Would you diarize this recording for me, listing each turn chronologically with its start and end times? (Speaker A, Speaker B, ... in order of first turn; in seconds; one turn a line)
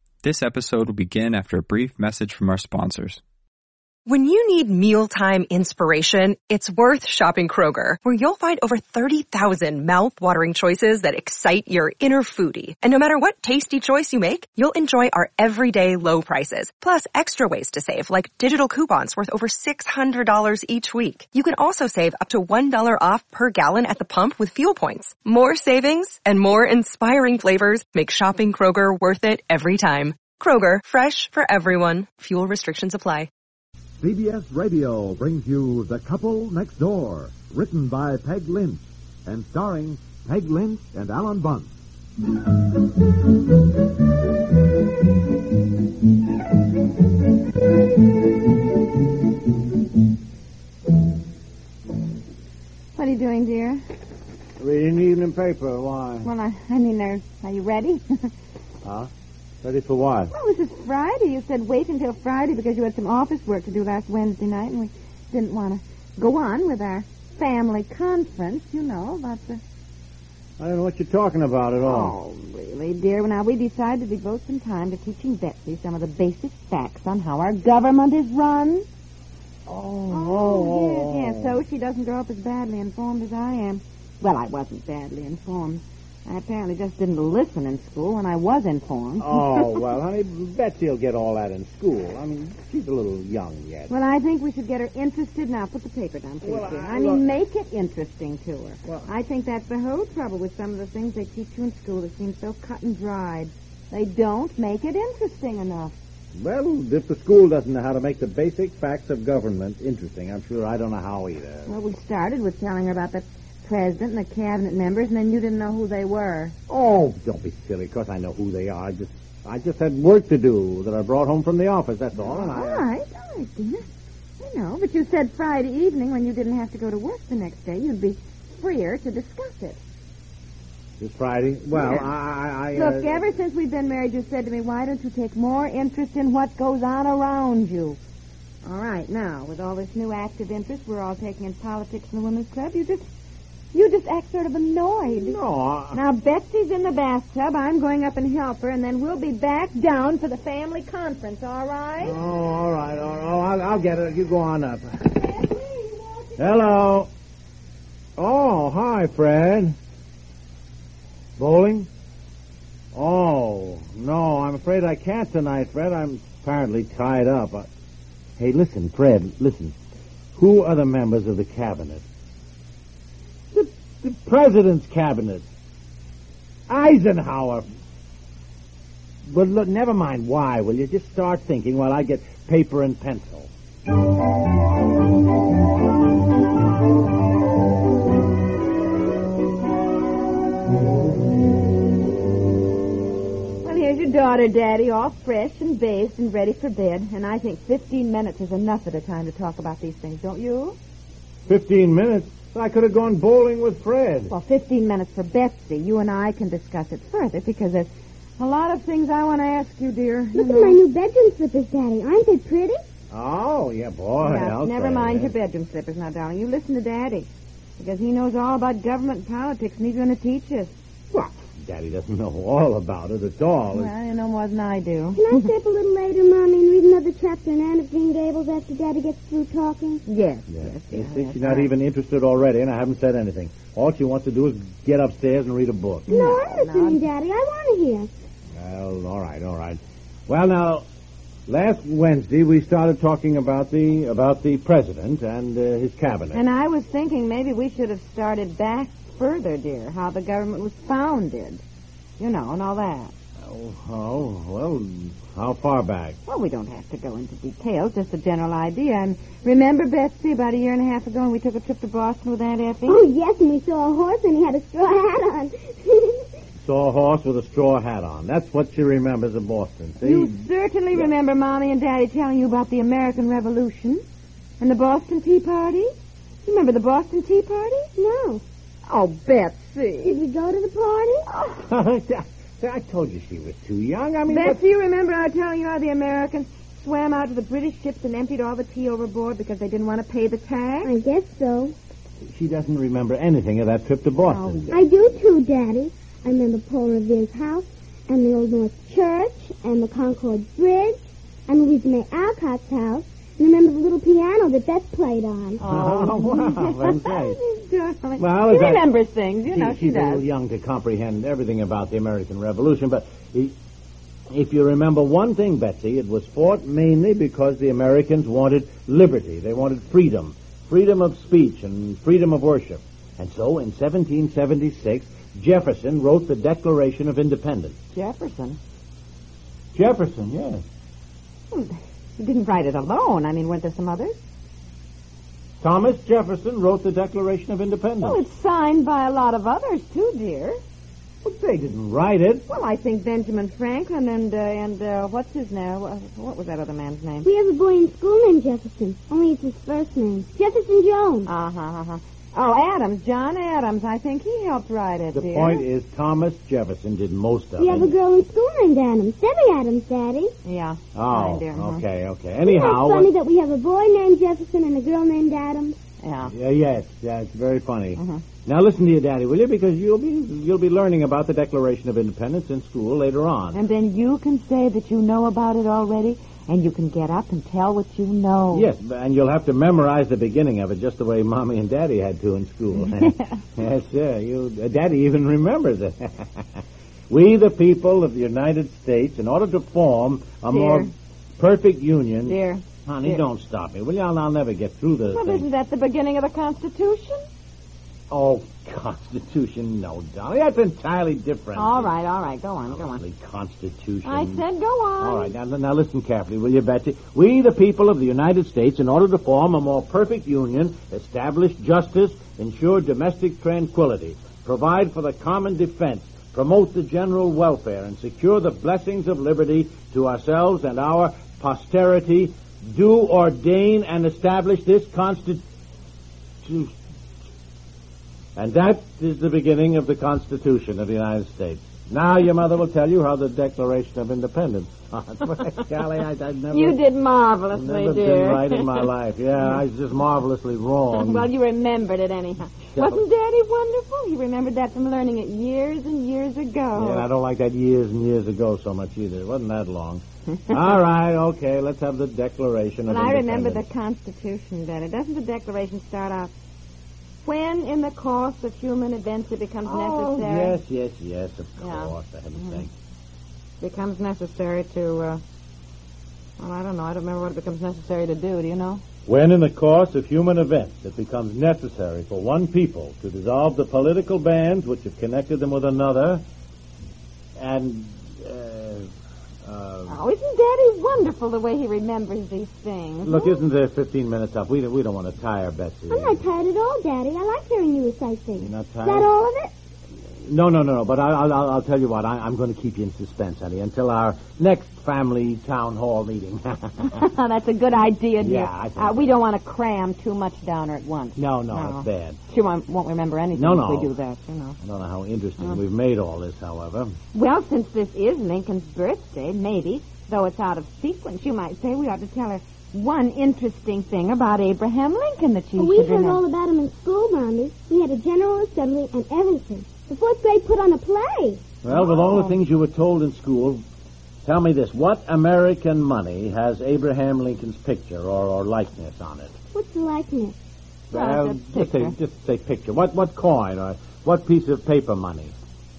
Speaker A: 0.2-3.2
Speaker B: 4.1-33.3
Speaker C: 34.0-41.7
Speaker D: 53.0-53.9
Speaker E: 54.6-56.3
Speaker D: 56.2-58.3
Speaker E: 58.8-59.1
Speaker E: 59.6-60.3
Speaker D: 60.3-69.6
Speaker E: 70.6-72.2
Speaker D: 71.8-78.9
Speaker E: 79.7-81.6
Speaker D: 80.1-89.8
Speaker E: 89.2-93.9
Speaker D: 93.9-106.0
Speaker E: 96.4-97.3
Speaker E: 106.4-111.8
Speaker D: 111.7-116.6
Speaker E: 116.7-122.9
Speaker D: 122.2-123.9
Speaker D: 124.4-129.8
Speaker E: 131.0-133.2
Speaker D: 131.7-132.1
Speaker D: 132.7-138.0
Speaker D: 138.6-143.1
Speaker D: 143.7-145.4
Speaker E: 145.1-146.0
Speaker D: 145.9-152.2
Speaker E: 152.0-155.4
Speaker D: 155.5-156.3
Speaker E: 156.4-157.1
Speaker E: 158.2-159.8
Speaker E: 161.4-161.9
Speaker E: 162.9-167.7
Speaker E: 168.4-169.8
Speaker E: 170.4-172.1
Speaker E: 173.5-175.5
Speaker E: 176.7-177.7
Speaker E: 179.3-183.5
Speaker D: 193.6-200.8
Speaker E: 201.5-204.3
Speaker D: 204.3-210.8
Speaker F: 210.3-212.8
Speaker E: 213.1-215.3
Speaker D: 214.2-220.7
Speaker E: 221.1-223.9
Speaker D: 223.7-225.4
Speaker F: 225.2-230.0
Speaker D: 230.1-231.7
Speaker E: 230.5-236.2
Speaker F: 236.1-238.1
Speaker D: 236.1-237.0
Speaker E: 238.6-240.9
Speaker E: 241.5-246.4
Speaker D: 246.3-251.6
Speaker D: 252.2-253.1
Speaker E: 253.4-256.2
Speaker D: 256.3-263.0
Speaker F: 262.9-266.3
Speaker E: 266.6-271.1
Speaker D: 270.0-274.0
Speaker D: 274.6-275.9
Speaker D: 276.4-277.9
Speaker F: 278.0-278.4
Speaker D: 278.9-280.2
Speaker F: 280.0-281.3
Speaker D: 281.3-281.6
Speaker E: 281.6-284.6
Speaker D: 284.3-290.9
Speaker F: 290.8-291.8
Speaker E: 292.3-294.7
Speaker D: 294.2-294.8
Speaker F: 294.7-305.6
Speaker D: 305.6-310.2
Speaker E: 305.6-307.4
Speaker E: 308.2-308.9
Speaker E: 309.5-313.6
Speaker E: 314.3-327.8
Speaker D: 327.9-328.6
Speaker E: 329.8-330.6
Speaker D: 331.5-334.2
Speaker E: 335.6-338.2
Speaker D: 338.0-340.6
Speaker E: 341.2-342.4
Speaker D: 342.5-347.3
Speaker F: 347.2-351.3
Speaker D: 351.2-355.6
Speaker E: 355.1-357.9
Speaker F: 357.6-360.3
Speaker D: 360.4-361.8
Speaker E: 360.9-363.1
Speaker F: 362.4-365.8
Speaker D: 366.0-366.3
Speaker E: 366.3-373.6
Speaker D: 368.0-368.2
Speaker D: 373.5-378.7
Speaker E: 378.5-386.4
Speaker D: 382.9-383.4
Speaker E: 387.1-395.5
Speaker D: 390.5-390.9
Speaker D: 392.2-393.2
Speaker D: 395.1-397.2
Speaker E: 398.1-401.9
Speaker D: 401.6-403.0
Speaker E: 402.7-404.4
Speaker D: 404.1-405.3
Speaker E: 405.0-425.4
Speaker E: 426.4-426.8
Speaker E: 428.4-436.8
Speaker D: 436.5-438.9
Speaker E: 437.5-441.3
Speaker D: 440.9-447.1
Speaker E: 442.8-443.0
Speaker E: 446.7-453.6
Speaker D: 452.9-456.3
Speaker D: 457.2-460.6
Speaker E: 459.6-462.7
Speaker D: 461.6-462.6
Speaker D: 463.6-465.2
Speaker D: 466.4-468.8
Speaker E: 469.1-476.2
Speaker E: 477.4-478.9
Speaker E: 479.4-480.0
Speaker D: 479.9-483.4
Speaker E: 483.0-486.2
Speaker F: 485.9-489.5
Speaker E: 488.4-489.1
Speaker E: 490.2-497.1
Speaker D: 496.9-504.6
Speaker E: 498.2-499.2
Speaker E: 501.2-502.2
Speaker E: 503.4-503.9
Speaker E: 504.6-506.9
Speaker D: 507.1-516.2
Speaker F: 515.6-521.4
Speaker E: 521.6-523.6
Speaker D: 521.7-522.4
Speaker E: 524.2-529.4
Speaker F: 529.5-530.4
Speaker E: 530.9-535.4
Speaker D: 530.9-532.0